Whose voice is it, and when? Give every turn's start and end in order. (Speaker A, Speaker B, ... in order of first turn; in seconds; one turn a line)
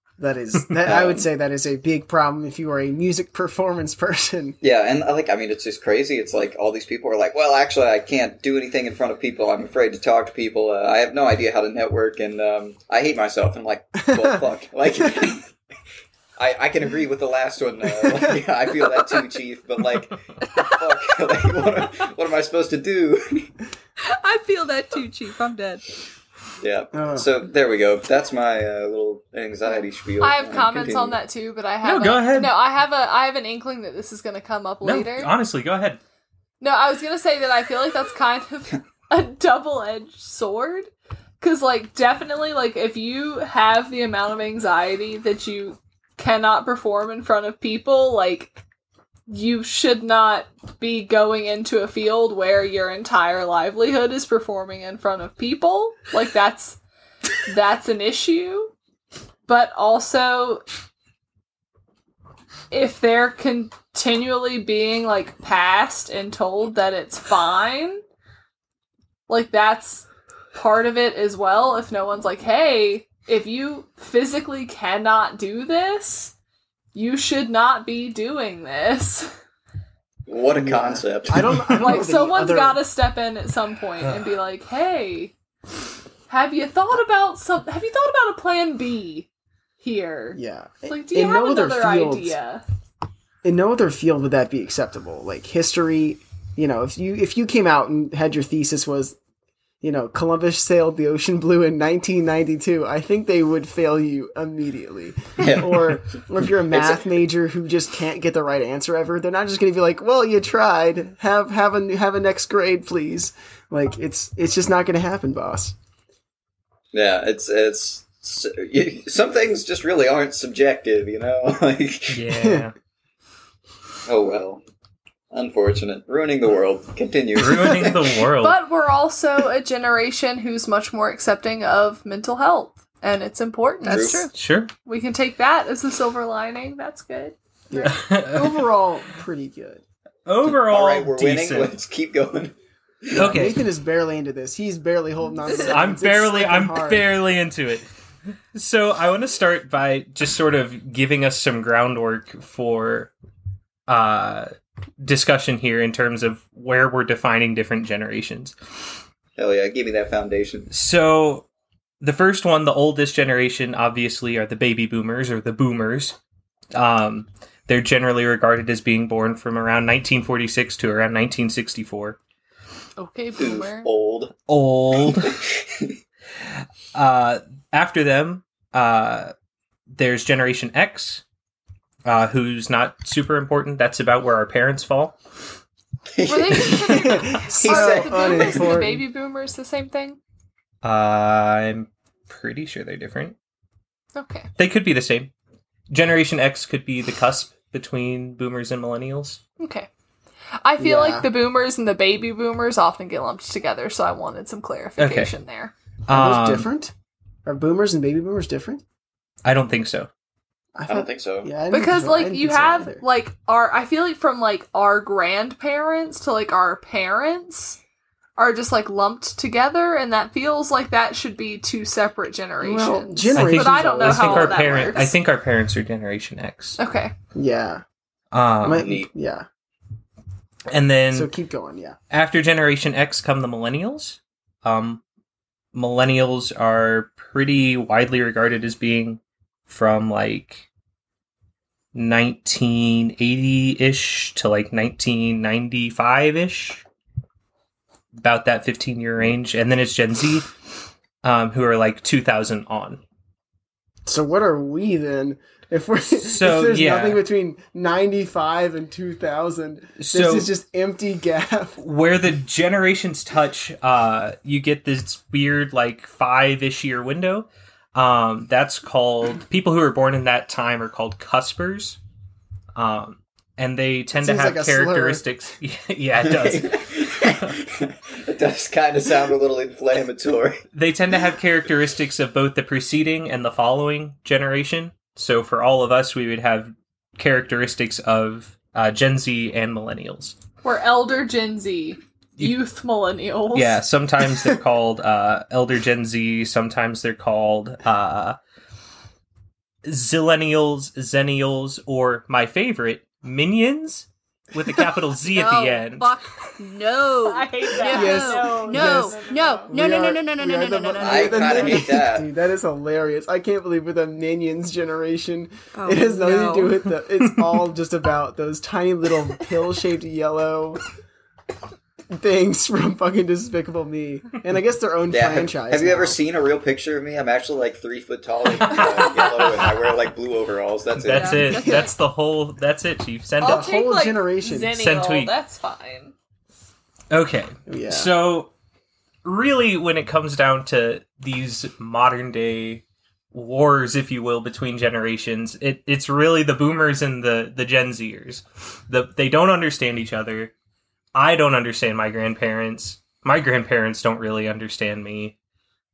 Speaker A: 0.2-4.6
Speaker B: 0.9-1.2
Speaker B: 4.6-15.6
Speaker B: 16.4-23.5
Speaker C: 20.5-21.6
Speaker C: 24.0-25.8
Speaker B: 26.6-31.2
Speaker A: 26.9-27.3
Speaker D: 30.2-35.3
Speaker E: 31.8-32.5
Speaker E: 34.8-36.0
Speaker D: 36.6-48.6
Speaker D: 49.3-56.8
Speaker D: 57.5-58.7
Speaker D: 59.5-60.6
Speaker D: 62.7-68.0
Speaker D: 69.3-76.3
Speaker D: 76.9-79.3
Speaker B: 80.3-81.6
Speaker A: 80.6-82.8
Speaker E: 81.4-82.0
Speaker D: 81.7-85.3
Speaker D: 86.3-89.3
Speaker D: 89.8-92.6
Speaker A: 90.3-92.3
Speaker A: 93.4-99.2
Speaker A: 99.8-115.8
Speaker B: 105.4-106.0
Speaker B: 106.7-107.0
Speaker B: 116.9-122.2
Speaker E: 122.1-122.7
Speaker A: 122.3-122.6
Speaker B: 124.0-124.6
Speaker B: 125.3-128.2
Speaker E: 127.3-128.6
Speaker D: 128.4-134.3
Speaker B: 133.8-134.3
Speaker C: 133.9-134.2
Speaker E: 134.3-134.7
Speaker D: 134.8-137.9
Speaker A: 137.7-139.8
Speaker E: 137.8-138.6
Speaker E: 140.2-141.8
Speaker B: 140.5-143.4
Speaker E: 143.1-143.6
Speaker A: 143.2-147.1
Speaker E: 145.5-147.8
Speaker E: 148.5-153.1
Speaker E: 153.9-158.6
Speaker B: 159.4-160.7
Speaker E: 160.7-161.4
Speaker E: 162.0-166.2
Speaker E: 166.7-172.2
Speaker D: 173.0-173.9
Speaker B: 173.4-174.3
Speaker E: 174.5-175.4
Speaker B: 175.1-175.9
Speaker E: 176.9-179.3
Speaker E: 179.9-181.2
Speaker E: 182.0-185.1
Speaker B: 186.2-188.8
Speaker D: 186.2-190.2
Speaker A: 186.9-189.0
Speaker E: 190.8-193.3
Speaker D: 194.1-194.5
Speaker E: 194.6-195.3
Speaker E: 195.9-199.4
Speaker D: 199.6-199.9
Speaker D: 200.6-205.7
Speaker A: 200.8-201.2
Speaker E: 205.0-205.3
Speaker A: 206.1-206.9
Speaker E: 206.1-206.7
Speaker A: 207.4-208.8
Speaker E: 209.4-210.1
Speaker A: 210.8-213.0
Speaker B: 210.9-211.5
Speaker D: 211.7-217.8
Speaker D: 218.4-225.1
Speaker A: 222.6-225.0
Speaker E: 223.3-226.8
Speaker D: 226.8-227.1
Speaker A: 227.3-227.8
Speaker E: 228.3-228.9
Speaker A: 228.6-229.4
Speaker B: 228.7-229.1
Speaker E: 230.7-231.3
Speaker A: 231.1-231.9
Speaker E: 232.1-235.0
Speaker E: 235.7-240.6
Speaker E: 241.9-246.8
Speaker E: 248.2-250.5
Speaker E: 251.2-253.0
Speaker A: 254.0-261.8
Speaker E: 256.1-257.2
Speaker E: 260.0-260.5
Speaker E: 261.8-272.0
Speaker E: 272.8-277.5
Speaker A: 274.2-275.2
Speaker B: 276.2-280.6
Speaker E: 280.7-290.4
Speaker D: 290.6-293.8
Speaker E: 293.5-298.4
Speaker E: 299.8-306.1
Speaker C: 305.2-311.9
Speaker D: 307.2-309.7
Speaker A: 307.9-320.8
Speaker B: 311.0-312.3
Speaker C: 315.7-316.8
Speaker A: 322.1-326.2
Speaker B: 325.1-331.4
Speaker E: 328.6-329.7
Speaker E: 331.0-333.7
Speaker C: 331.1-331.9
Speaker A: 331.6-331.9
Speaker D: 333.4-336.1
Speaker A: 333.4-334.8
Speaker E: 334.8-335.3
Speaker E: 337.1-338.5
Speaker A: 337.7-338.1
Speaker E: 339.2-350.5
Speaker E: 351.1-355.3